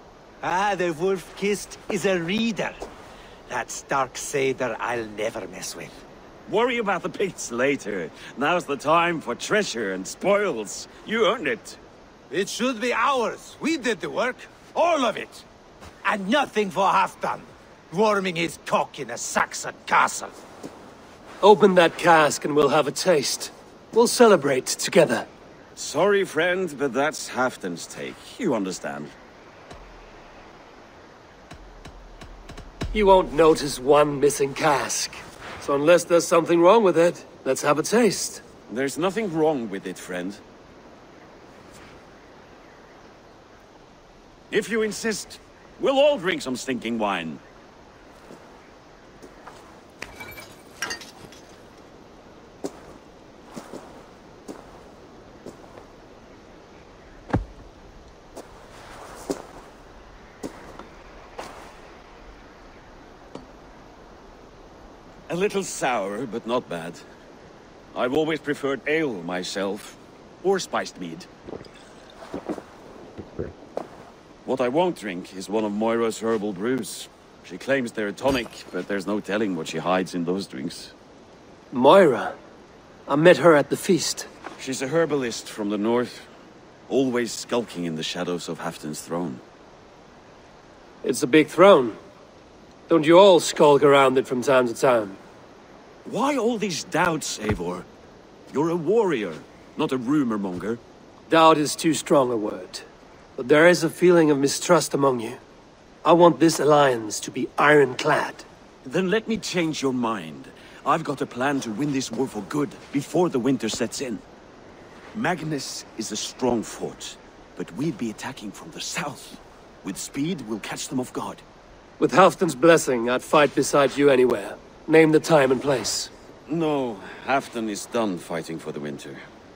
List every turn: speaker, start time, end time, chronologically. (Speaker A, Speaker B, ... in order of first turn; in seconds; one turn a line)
Speaker A: 0.4-2.8
Speaker A: 3.5-6.0
Speaker B: 6.5-11.8
Speaker A: 12.3-15.4
Speaker A: 16.0-20.3
Speaker C: 21.4-25.3
Speaker B: 25.7-29.1
Speaker C: 32.9-38.4
Speaker B: 38.7-40.4
Speaker B: 44.5-47.4
Speaker B: 65.3-67.0
Speaker B: 67.9-71.3
Speaker B: 74.4-80.9
Speaker C: 81.7-82.3
Speaker C: 83.1-84.3
Speaker B: 84.6-86.3
Speaker B: 86.9-89.4
Speaker C: 91.0-92.0
Speaker C: 92.9-95.2
Speaker B: 96.0-97.9
Speaker B: 98.5-100.8
Speaker C: 101.3-102.8
Speaker C: 103.4-105.4
Speaker C: 106.0-108.5
Speaker B: 108.8-114.2
Speaker B: 115.1-121.4
Speaker C: 122.0-126.1
Speaker B: 126.5-129.2